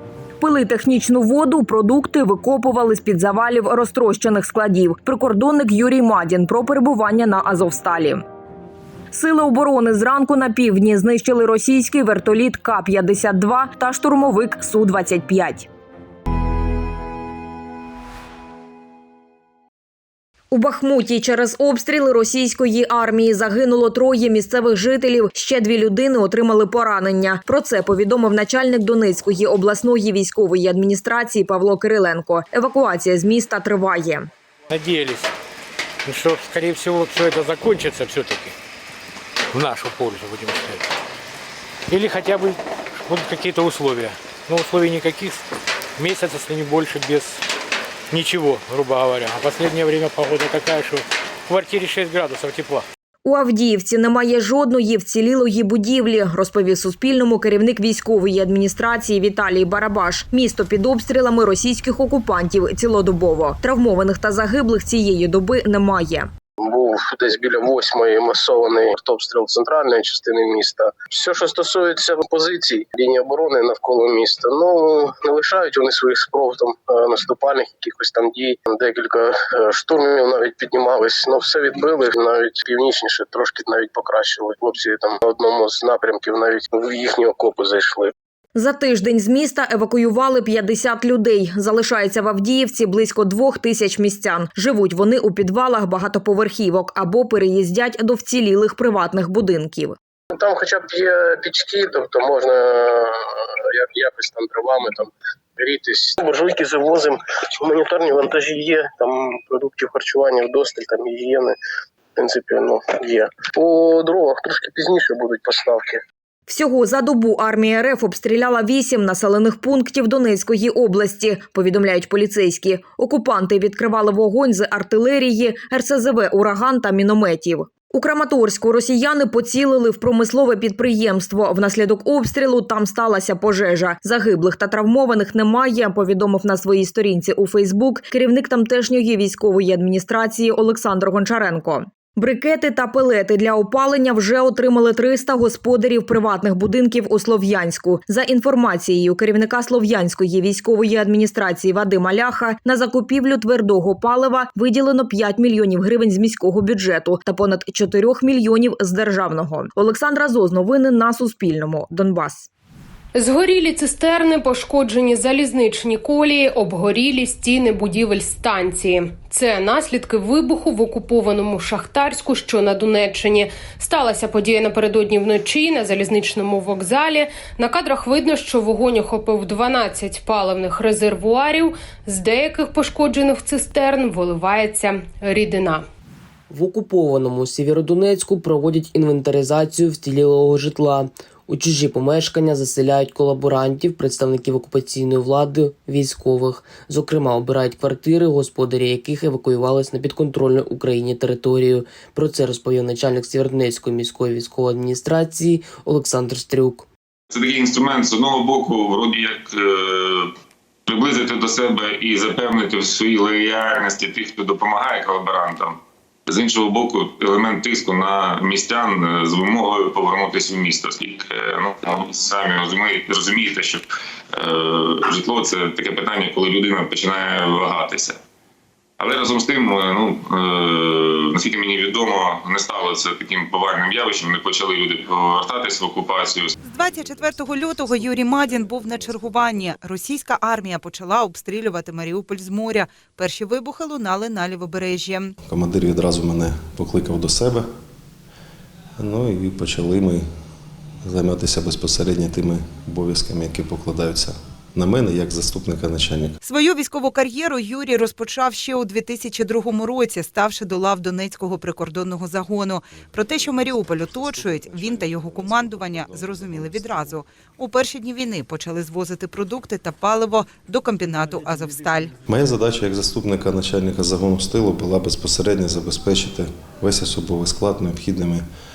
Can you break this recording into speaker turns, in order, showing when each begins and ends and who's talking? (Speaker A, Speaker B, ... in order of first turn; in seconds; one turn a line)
Speaker A: 0.4-8.2
Speaker A: 9.1-15.7
Speaker A: 20.5-34.2
Speaker B: 34.7-35.3
Speaker B: 36.0-38.5
Speaker B: 39.5-40.8
Speaker B: 41.9-45.4
Speaker B: 46.0-47.4
Speaker B: 48.1-52.8
Speaker A: 53.2-66.3
Speaker C: 66.6-88.1
Speaker A: 88.5-100.0
Speaker C: 100.3-111.5
Speaker C: 112.2-116.0
Speaker A: 116.5-162.5
Speaker D: 163.1-185.8
Speaker E: 186.5-206.9
Speaker F: 207.3-210.3
Speaker F: 210.9-215.8
Speaker F: 216.3-223.8
Speaker F: 224.4-228.2
Speaker F: 229.0-236.5
Speaker G: 236.6-245.3
Speaker H: 245.5-247.7
Speaker H: 249.0-250.2
Speaker H: 251.2-256.3
Speaker G: 256.4-272.1
Speaker H: 272.6-278.4